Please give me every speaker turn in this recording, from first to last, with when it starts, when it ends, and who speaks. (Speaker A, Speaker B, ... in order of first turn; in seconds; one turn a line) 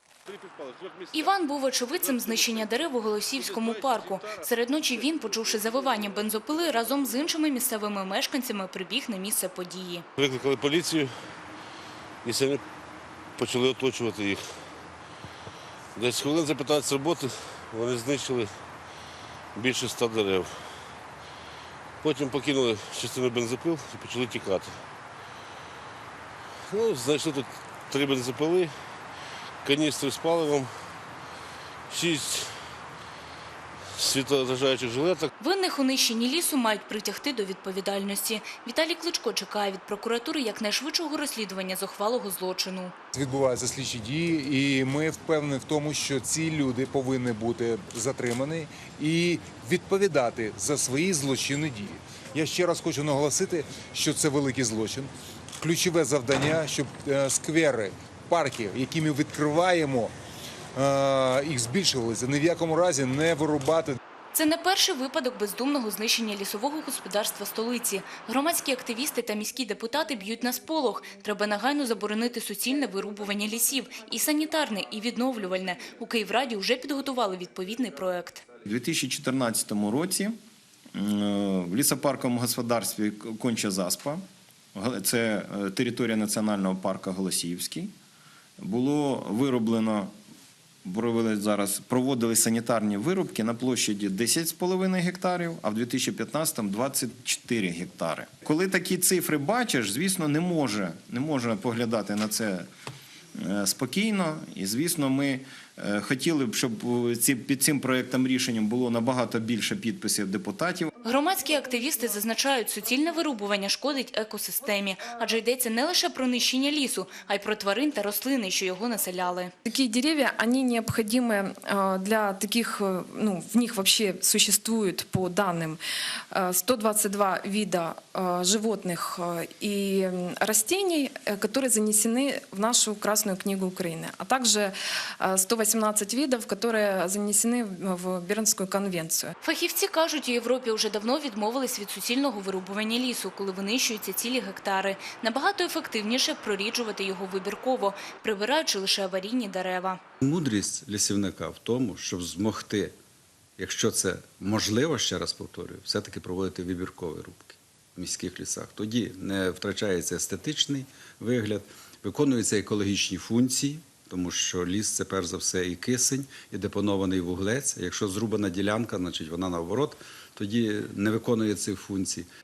Speaker A: 0.3-1.3
Speaker B: 1.1-10.1
Speaker A: 3.5-4.0
Speaker A: 10.2-11.2
Speaker A: 12.2-12.6
Speaker A: 13.4-14.5
Speaker A: 15.9-18.5
Speaker A: 19.6-20.8
Speaker A: 22.0-24.8
Speaker A: 26.7-28.8
Speaker A: 29.6-30.7
Speaker A: 31.9-32.5
Speaker A: 34.0-35.3
Speaker B: 35.4-42.9
Speaker C: 43.1-60.1
Speaker C: 60.8-64.0
Speaker B: 64.3-78.4
Speaker D: 78.7-80.3
Speaker D: 81.0-84.2
Speaker D: 84.8-87.9
Speaker D: 88.6-90.1
Speaker D: 90.8-102.7
Speaker D: 103.4-110.9
Speaker B: 111.0-119.5
Speaker E: 119.7-125.8
Speaker E: 126.3-139.3
Speaker B: 139.4-150.0
Speaker F: 150.2-152.9
Speaker F: 153.6-172.3